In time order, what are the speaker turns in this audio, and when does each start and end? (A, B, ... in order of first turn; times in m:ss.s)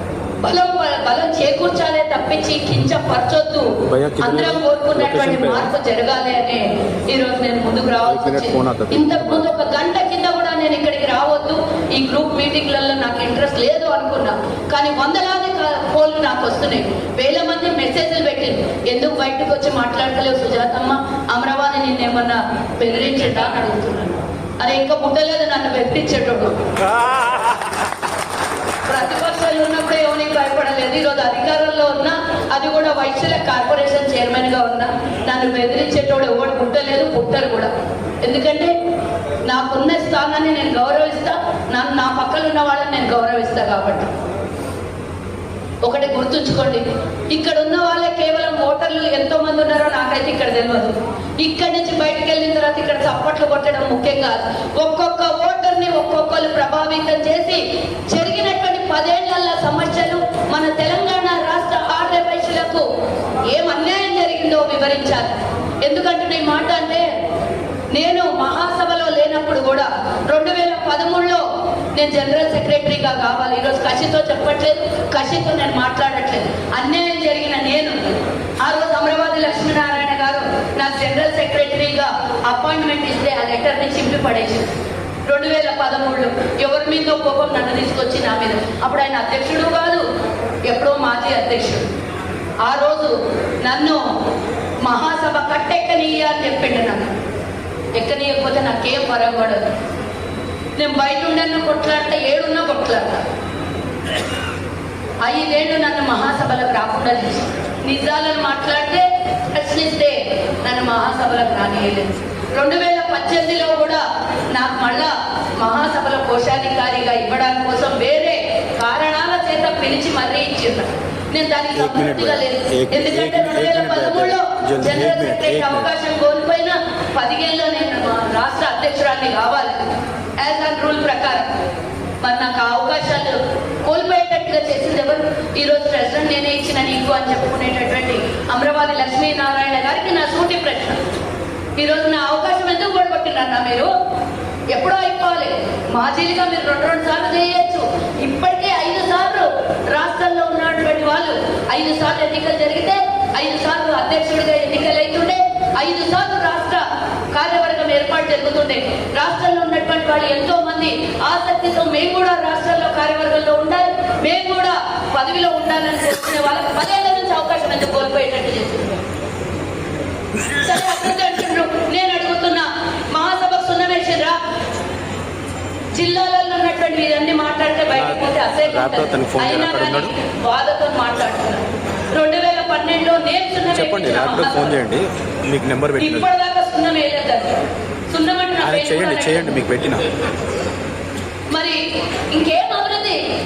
0:00.4-0:26.6 A
0:03.8-0:05.7 B
0:08.1-0:09.5 B
0:28.9-0:37.7 A
0:38.2-0:38.7 A
0:39.5-0:44.1 A
0:45.8-1:02.8 A
1:03.5-1:05.3 A
1:05.8-1:07.0 A
1:07.9-1:11.4 A
1:11.9-1:18.0 A
1:18.6-1:24.7 A
1:25.3-1:30.0 A
1:30.7-1:31.9 A
1:32.6-1:34.0 A
1:34.8-1:37.1 A
1:38.0-1:39.6 A
1:40.8-1:43.2 A
1:45.2-2:09.8 A
2:01.8-2:05.9 B
2:10.4-2:11.4 A
2:12.2-2:21.0 A
2:21.8-2:23.9 A
2:24.7-2:49.0 A
2:50.5-2:54.4 A
2:55.9-3:04.8 A
2:57.9-3:00.1 B
3:03.7-3:06.3 B
3:06.0-3:07.6 A
3:08.1-3:09.6 A
3:08.6-3:10.0 B
3:11.5-3:13.2 A